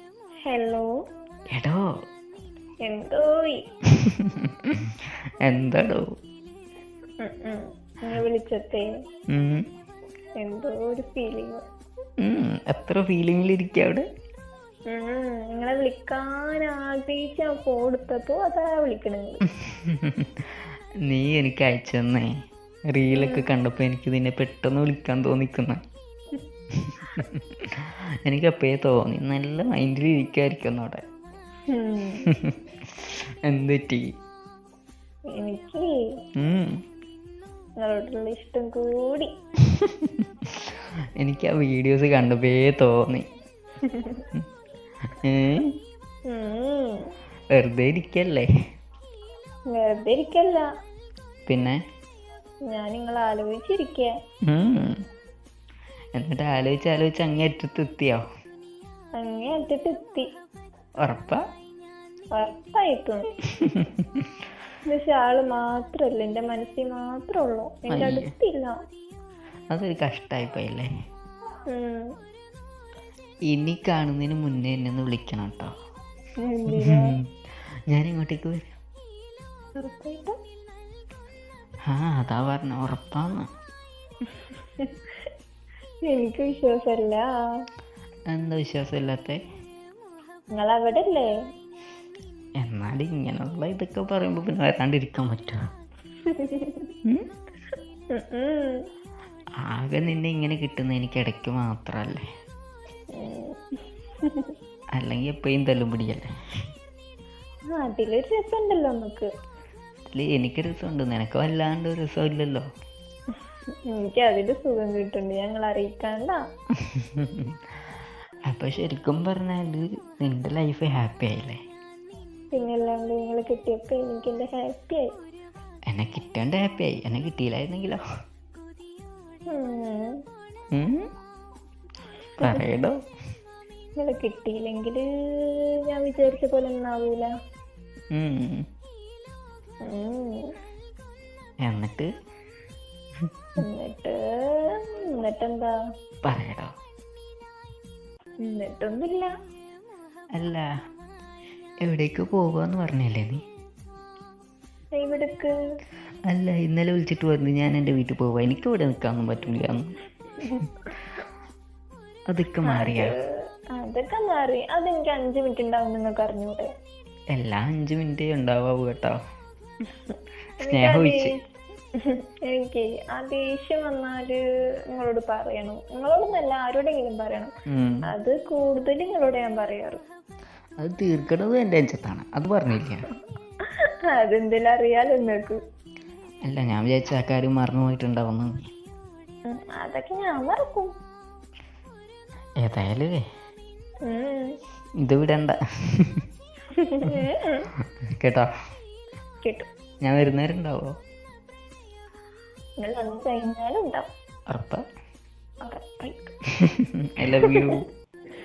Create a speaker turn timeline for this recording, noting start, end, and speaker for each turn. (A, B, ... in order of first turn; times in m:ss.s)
0:00.4-0:00.9 A
0:01.5-0:01.8 B
0:02.8-0:03.6 A
0:05.4-0:06.0 B
0:07.2-0:08.8 A
0:09.3-0:09.6 B
0:10.4-0:11.6 A
0:12.2-0:14.0 B
0:14.9-0:19.4 A
0:19.7-0:20.2 B
0:21.1-0:22.3 B
0:22.9-0:25.8 B
0:23.1-0:23.4 A
0:26.8-0:27.4 B
0:28.2-0:31.0 B
0:31.7-0:32.2 A
0:32.3-0:32.6 B
0:33.4-0:34.0 B
0:35.3-0:35.9 A
0:36.4-0:36.8 B
0:37.8-0:39.3 A
0:39.8-0:40.2 B
0:41.2-0:43.2 B
0:43.8-0:44.2 A
0:45.1-0:45.7 B
0:46.3-0:47.1 A
0:47.5-0:48.5 B
0:49.7-0:50.7 A
0:51.4-0:51.8 B
0:52.7-0:54.1 A
0:54.4-0:55.0 B
0:56.1-0:58.2 B
0:59.2-1:00.2 A
1:01.0-1:01.4 B
1:02.3-1:03.2 A
1:03.6-1:04.0 B
1:04.9-1:08.8 A
1:07.9-1:08.3 B
1:09.7-1:10.9 B
1:11.7-1:12.0 A
1:13.5-1:15.7 B
1:16.4-1:17.1 A
1:16.7-1:17.2 B
1:17.9-1:18.7 B
1:19.8-1:20.4 A
1:21.9-1:23.5 B
1:24.8-1:25.3 A
1:26.1-1:27.3 A
1:28.3-1:29.4 B
1:30.5-1:31.3 A
1:32.6-1:35.6 B
1:36.2-1:36.9 A
1:38.1-1:38.8 A
1:39.6-1:42.2 B
1:43.1-1:44.5 A
1:45.0-1:46.3 B
1:47.7-1:49.3 A
1:50.1-1:52.6 B
1:53.9-1:56.4 A
1:56.9-1:57.5 B
1:58.5-2:01.6 B
2:02.5-2:05.1 A
2:05.9-2:08.0 B
2:09.5-2:10.1 A
2:10.7-2:11.1 B
2:12.4-2:12.9 B
2:14.0-2:17.3 A
2:18.1-2:18.6 B
2:19.8-2:20.4 A
2:21.6-2:22.1 B
2:23.6-2:25.7 A
2:26.2-2:26.7 B
2:28.4-2:29.3 A
2:30.4-2:30.6 B
2:31.8-2:33.4 B
2:34.9-2:35.5 A
2:36.3-2:39.9 B
2:42.3-2:43.1 B
2:42.7-2:43.2 A
2:43.8-2:46.6 A
2:47.3-2:49.2 B
2:50.6-2:51.3 A
2:50.7-2:51.3 B
2:52.0-2:54.4 A
2:54.9-2:57.5 A
2:57.7-2:58.0 B
2:58.1-3:00.0 A
3:00.8-3:03.1 B
3:04.1-3:05.6 A
3:06.4-3:08.7 B
3:09.5-3:10.9 A
3:12.6-3:13.2 B
3:14.0-3:14.6 A
3:15.0-3:16.1 B
3:16.7-3:17.7 A
3:18.2-3:18.5 B
3:19.4-3:19.7 A
3:20.0-3:20.9 B
3:22.8-3:24.1 A
3:24.5-3:24.8 B
3:25.6-3:26.3 A
3:26.7-3:27.8 B
3:27.2-3:27.6 A